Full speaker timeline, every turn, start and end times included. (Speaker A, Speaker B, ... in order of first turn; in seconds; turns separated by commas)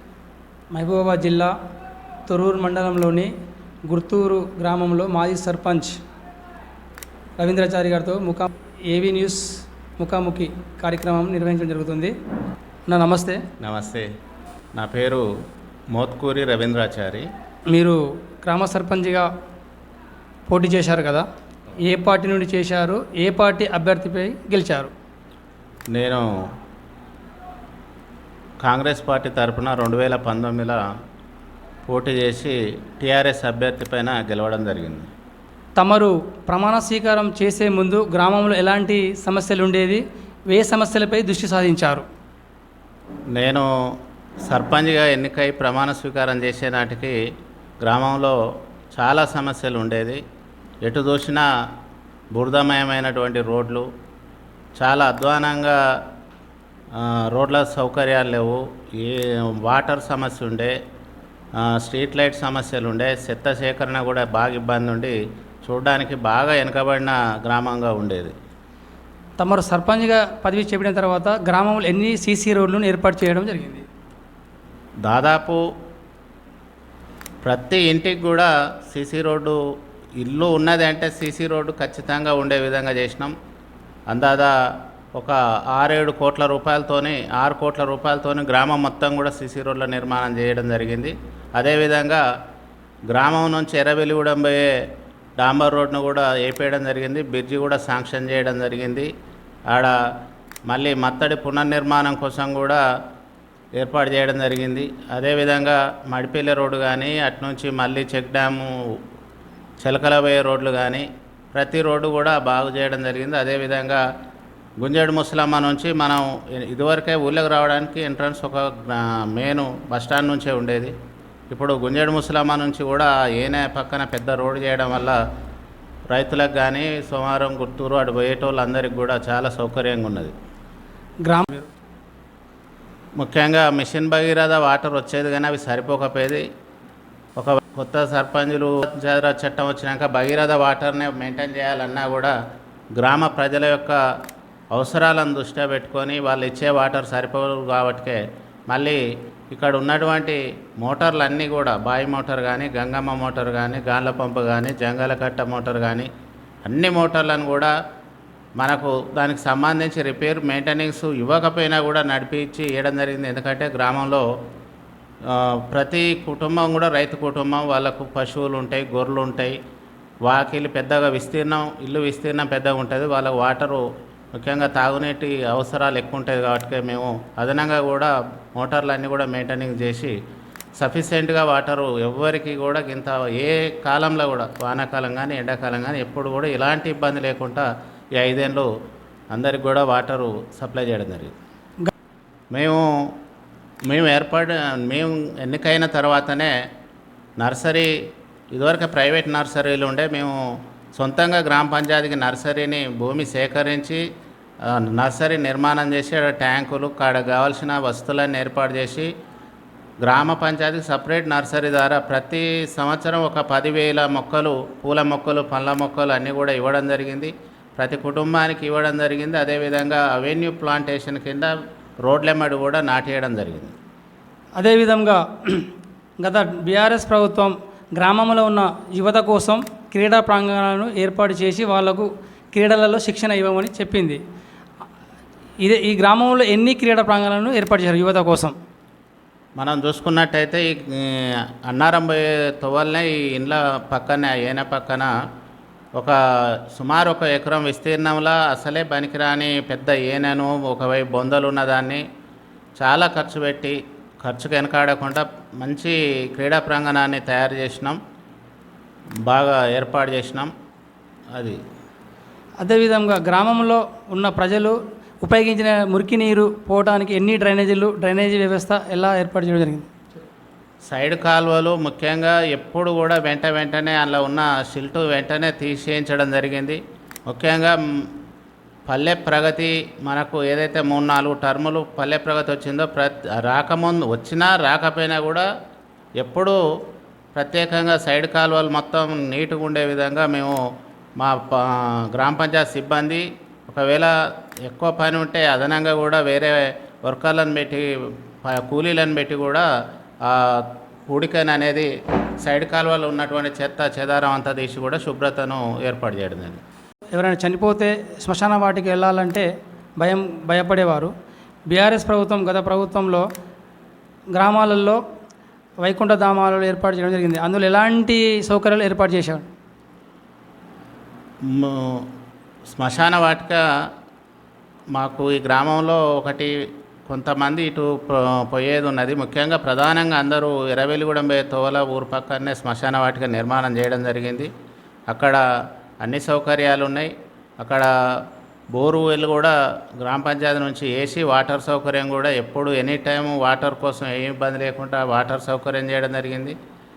Speaker A: 0.7-1.5, Speaker A: 2.3-3.3, Speaker A: 3.9-6.0, Speaker A: 7.4-12.1, Speaker A: 12.9-13.4, Speaker B: 13.6-14.1, Speaker B: 14.7-15.3, Speaker B: 15.9-17.3, Speaker A: 17.7-19.3, Speaker A: 20.5-21.2, Speaker A: 21.8-24.9, Speaker B: 25.9-26.2, Speaker B: 28.6-30.8, Speaker B: 31.9-35.1, Speaker A: 35.8-42.0, Speaker B: 43.3-43.7, Speaker B: 44.5-47.2, Speaker B: 47.8-48.4, Speaker B: 48.9-50.2, Speaker B: 50.8-51.5, Speaker B: 52.3-53.9, Speaker B: 54.8-55.8, Speaker B: 56.9-60.7, Speaker B: 61.6-68.3, Speaker A: 69.4-73.8, Speaker B: 75.0-75.6, Speaker B: 77.4-79.6, Speaker B: 80.2-83.3, Speaker B: 84.1-84.5, Speaker B: 85.2-92.2, Speaker B: 93.1-94.7, Speaker B: 95.4-99.1, Speaker B: 100.7-102.8, Speaker B: 103.8-108.7, Speaker B: 109.8-114.0, Speaker B: 114.8-120.9, Speaker B: 121.5-125.2, Speaker B: 126.1-130.3, Speaker A: 131.2-131.7, Speaker B: 133.2-136.4, Speaker B: 137.4-142.3, Speaker B: 143.0-144.0, Speaker B: 144.7-156.1, Speaker B: 156.7-157.7, Speaker B: 158.6-164.2, Speaker B: 165.2-169.6, Speaker B: 170.2-173.8, Speaker B: 174.4-180.1, Speaker B: 180.8-187.7, Speaker B: 188.2-188.7, Speaker B: 189.3-191.3, Speaker B: 192.5-192.8, Speaker B: 193.9-196.5, Speaker B: 197.4-197.9, Speaker B: 198.5-200.3, Speaker B: 200.9-204.0, Speaker B: 204.6-209.1, Speaker B: 210.0-221.5, Speaker B: 222.0-223.7, Speaker A: 224.6-225.7, Speaker A: 226.2-234.2, Speaker A: 235.6-238.5, Speaker B: 239.6-245.1, Speaker B: 246.7-252.0, Speaker B: 252.8-258.0, Speaker B: 259.3-260.5, Speaker A: 262.6-269.9, Speaker B: 270.9-278.1, Speaker B: 278.9-285.5, Speaker B: 286.2-286.6, Speaker B: 287.3-290.6, Speaker B: 291.2-297.9, Speaker B: 298.4-299.6, Speaker B: 300.2-301.9, Speaker B: 302.4-306.6, Speaker A: 307.1-309.5, Speaker A: 310.0-311.1, Speaker A: 311.7-313.2, Speaker A: 314.4-315.0, Speaker A: 315.8-319.5, Speaker B: 321.5-322.1, Speaker B: 322.7-323.6, Speaker B: 324.9-326.5, Speaker B: 327.1-334.5, Speaker B: 335.1-335.4, Speaker B: 336.0-346.6